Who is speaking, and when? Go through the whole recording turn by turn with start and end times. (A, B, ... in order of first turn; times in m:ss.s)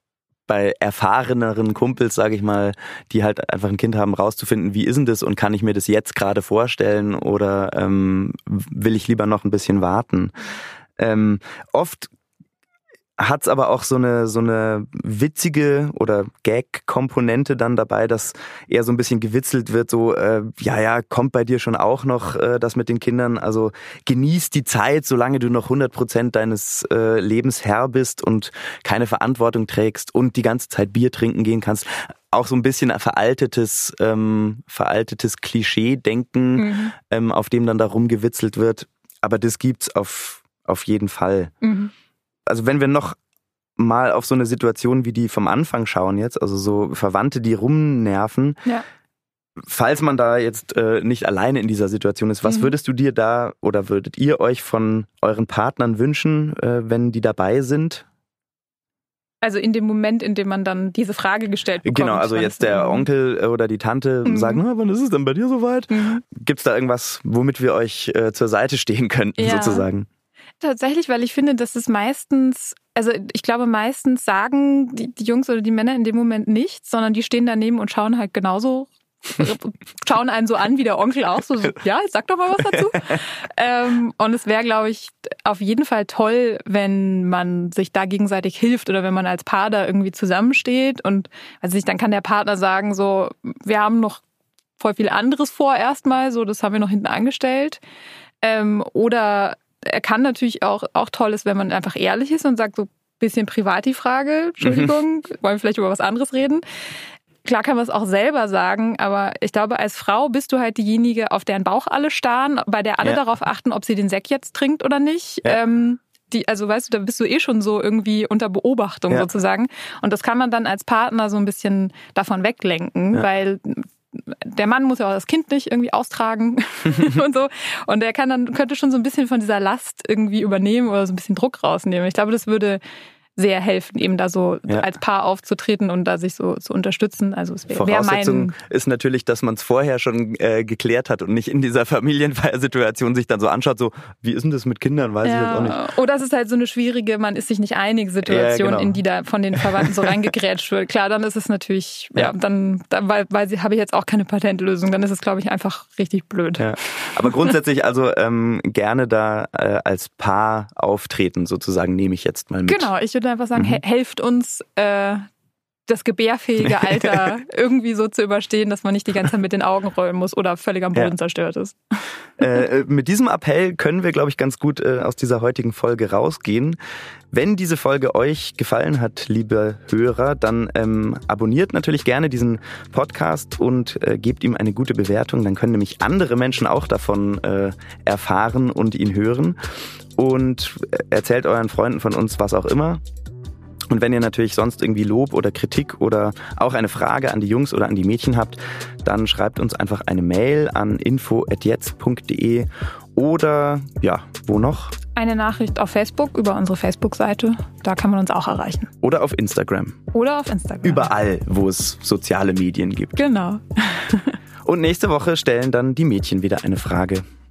0:00.5-0:10.4 A
0:11.0-0:12.1 A
0:13.2-0:41.5 A
0:36.6-0:37.0 B
0:41.6-0:41.9 B
0:42.5-0:43.2 A
0:43.8-0:48.6 A
0:49.6-0:58.0 A
0:52.4-0:52.8 B
0:59.4-1:03.1 B
1:01.8-1:10.1 A
1:04.2-1:04.6 B
1:05.9-1:06.2 B
1:09.4-1:09.9 B
1:10.6-1:34.2 B
1:34.8-1:37.8 B
1:38.4-1:46.6 B
1:44.6-1:44.9 A
1:47.4-2:12.8 B
2:13.4-2:18.6 B
2:17.7-2:25.8 A
2:25.2-2:37.3 B
2:28.2-2:29.0 A
2:29.6-2:30.1 A
2:36.6-2:42.9 A
2:42.7-2:45.2 B
2:43.6-2:43.8 A
2:45.9-2:52.6 B
2:46.6-2:47.3 A
2:52.4-2:56.8 A
2:57.3-3:09.6 A
3:10.2-3:13.0 A
3:13.9-3:24.9 A
3:25.2-3:28.9 B
3:29.0-3:30.0 A
3:30.1-3:31.1 B
3:30.8-3:33.2 A
3:33.2-3:34.4 B
3:34.6-3:37.2 A